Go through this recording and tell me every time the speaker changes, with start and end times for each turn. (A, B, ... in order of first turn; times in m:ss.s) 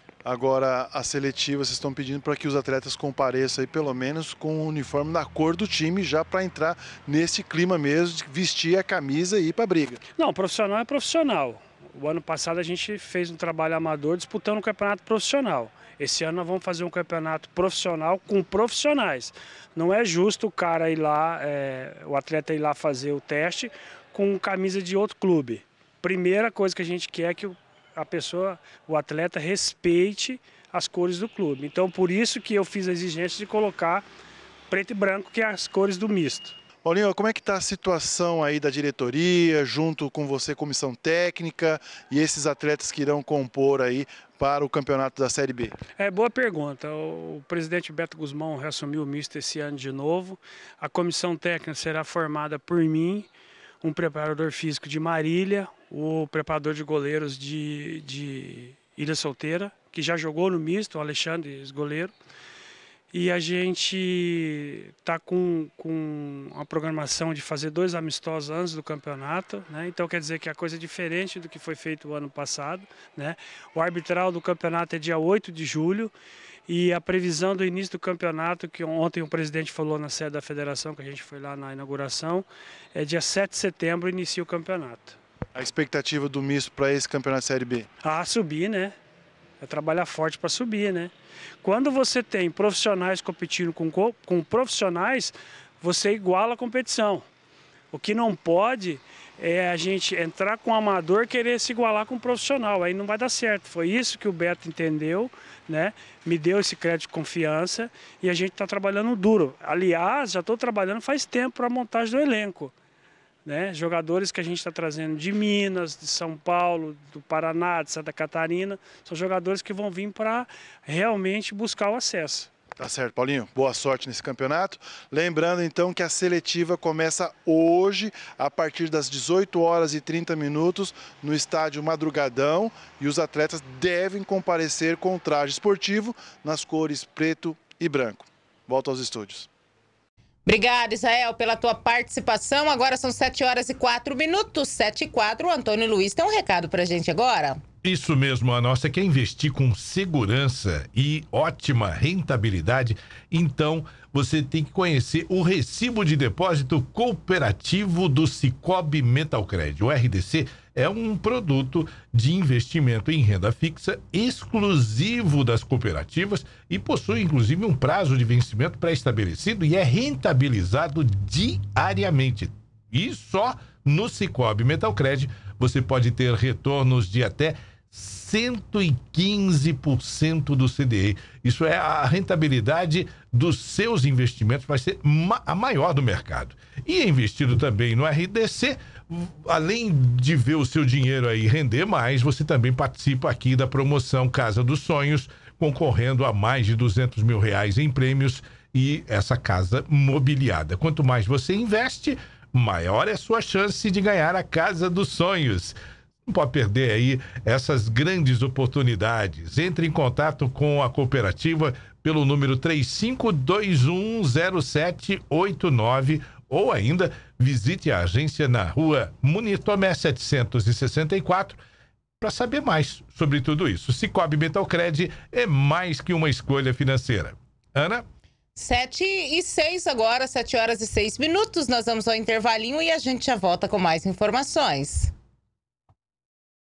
0:00.2-0:10.0 A
0:10.2-0:34.1 B
0:34.7-0:36.6 B
0:36.8-0:45.8 A
0:46.0-0:53.3 B
0:53.8-1:02.1 B
1:03.1-1:16.1 B
1:16.7-1:25.2 B
1:25.6-1:27.9 A
1:28.0-1:29.0 B
1:29.6-1:37.2 B
1:37.9-1:52.7 B
1:53.4-2:02.5 B
2:02.8-2:19.5 A
2:20.5-2:27.6 C
2:27.8-3:41.6 D
3:42.2-3:48.0 D
3:48.6-3:55.1 C